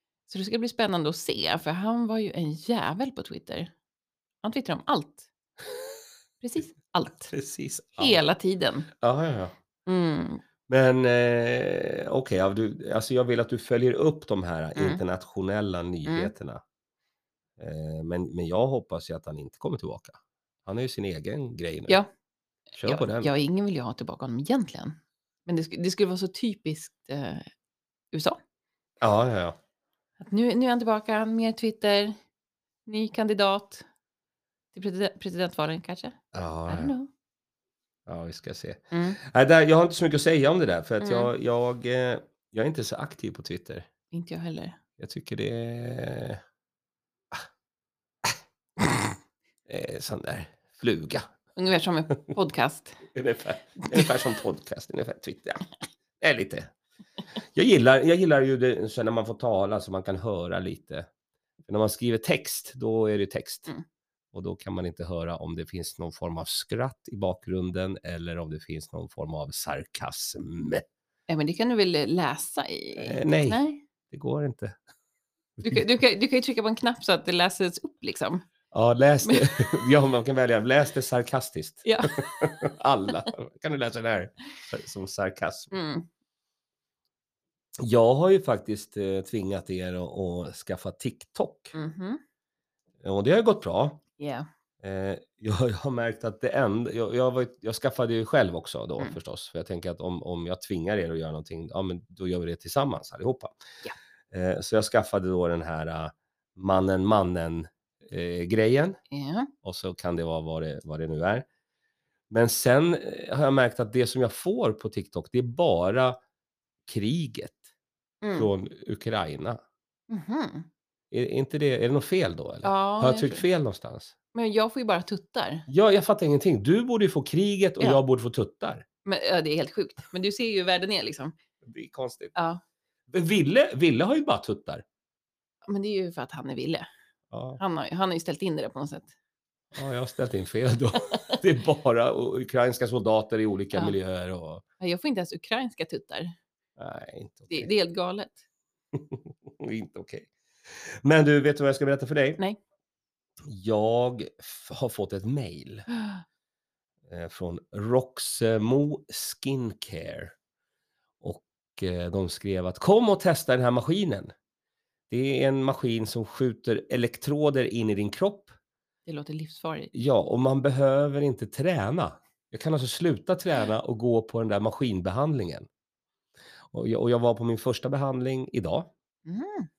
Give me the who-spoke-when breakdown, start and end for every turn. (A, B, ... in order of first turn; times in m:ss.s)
0:00.3-0:03.7 A
0:04.4-0:05.3 A
0:06.4-0:07.3 A
0:07.3-0:08.2 B
0:08.0-0:08.9 A
0:09.0-0:09.5 B
0:09.8-0:10.4 A
0:10.7-0:16.6 B
0:14.8-0:15.0 A
0:16.0-0:16.3 A
0:17.6-0:22.0 B
0:22.8-0:23.3 B
0:22.8-0:27.5 A
0:28.1-0:28.4 A
0:29.0-0:29.6 B
0:30.2-0:32.1 A
0:32.8-0:33.8 A
0:34.7-0:37.1 A
0:36.3-0:36.9 B
0:38.1-0:43.9 B
0:38.9-0:39.2 A
0:41.0-0:41.3 A
0:44.1-0:44.8 A
0:45.0-0:46.4 B
0:49.7-0:51.3 B
0:51.6-0:53.0 A
0:53.1-0:55.7 B
0:56.2-0:56.7 B
0:57.5-1:01.1 B
1:01.7-1:03.7 B
1:04.3-1:10.8 B
1:11.3-1:13.8 A
1:13.0-1:14.8 B
1:15.6-1:18.4 A
1:18.7-1:25.7 B
1:19.2-1:19.5 A
1:21.8-1:22.6 A
1:25.7-1:26.1 A
1:27.8-1:31.7 B
1:31.7-1:32.2 A
1:33.0-1:34.0 B
1:34.2-1:34.5 A
1:34.8-1:43.5 B
1:44.3-1:49.0 B
1:49.1-1:49.5 A
1:49.6-1:51.5 B
1:52.3-1:56.2 B
1:56.8-1:57.6 B
1:58.2-1:58.5 A
1:58.3-1:59.6 B
2:00.1-2:00.7 A
2:01.1-2:04.1 B
2:02.6-2:03.4 A
2:04.3-2:05.7 A
2:05.7-2:08.8 B
2:09.0-2:11.3 A
2:11.6-2:12.3 B
2:12.4-2:12.6 A
2:13.1-2:14.8 B
2:15.6-2:16.9 A
2:17.3-2:17.6 B
2:17.6-2:19.1 A
2:19.7-2:24.6 B
2:24.8-2:26.3 A
2:26.8-2:27.7 B
2:27.5-2:28.4 A
2:28.9-2:30.3 B
2:31.0-2:32.4 B
2:33.5-2:35.9 B
2:37.1-2:40.3 B
2:41.2-2:44.3 B
2:45.1-2:48.5 B
2:49.0-2:49.9 A
2:49.9-2:55.7 B
2:56.7-2:58.9 B
2:59.2-2:59.7 A